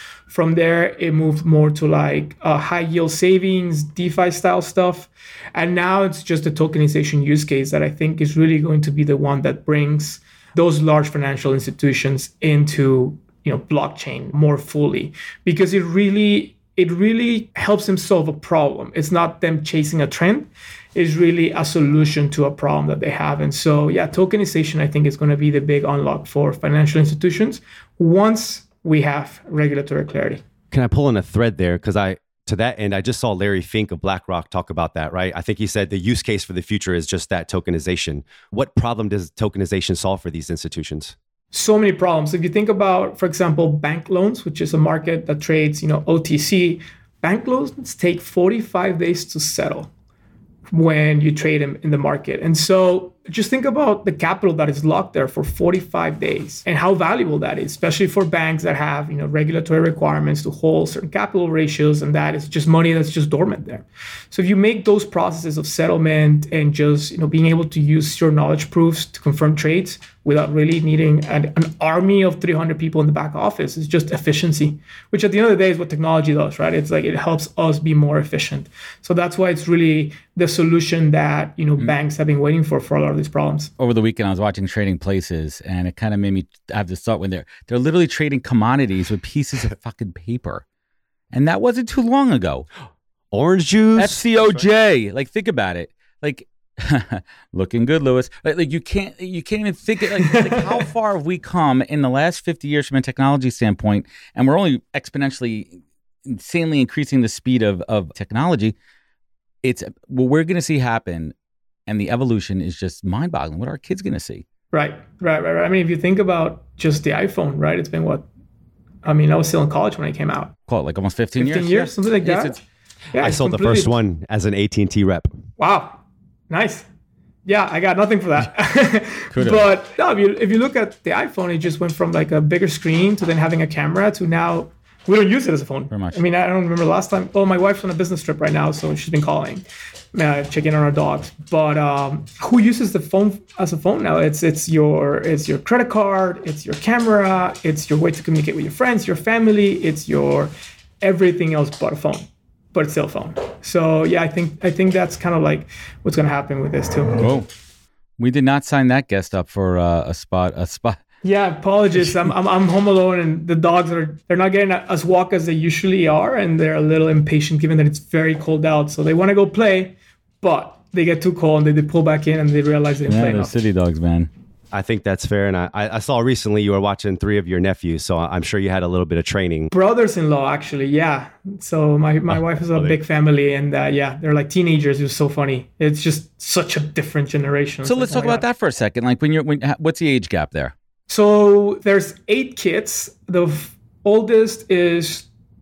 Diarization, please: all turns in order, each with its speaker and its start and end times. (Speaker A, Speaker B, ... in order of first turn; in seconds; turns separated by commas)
Speaker A: 0.3-30.4, Speaker B: 30.7-41.1, Speaker A: 41.5-49.9, Speaker A: 50.7-83.7, Speaker C: 83.8-90.6, Speaker C: 91.3-92.7, Speaker B: 93.3-94.6, Speaker C: 94.0-108.7, Speaker C: 109.6-111.3, Speaker C: 111.9-114.5, Speaker A: 114.7-118.2, Speaker A: 119.0-120.5, Speaker C: 120.7-122.6, Speaker A: 121.4-122.6, Speaker A: 123.1-123.9, Speaker B: 123.2-125.3, Speaker A: 125.6-126.9, Speaker A: 127.5-157.3, Speaker C: 129.3-129.7, Speaker C: 135.9-136.2, Speaker C: 157.2-157.5, Speaker C: 158.2-161.0, Speaker A: 161.2-173.5, Speaker C: 173.1-174.3, Speaker B: 174.7-179.7, Speaker A: 179.7-188.4, Speaker C: 187.8-190.7, Speaker A: 191.1-195.3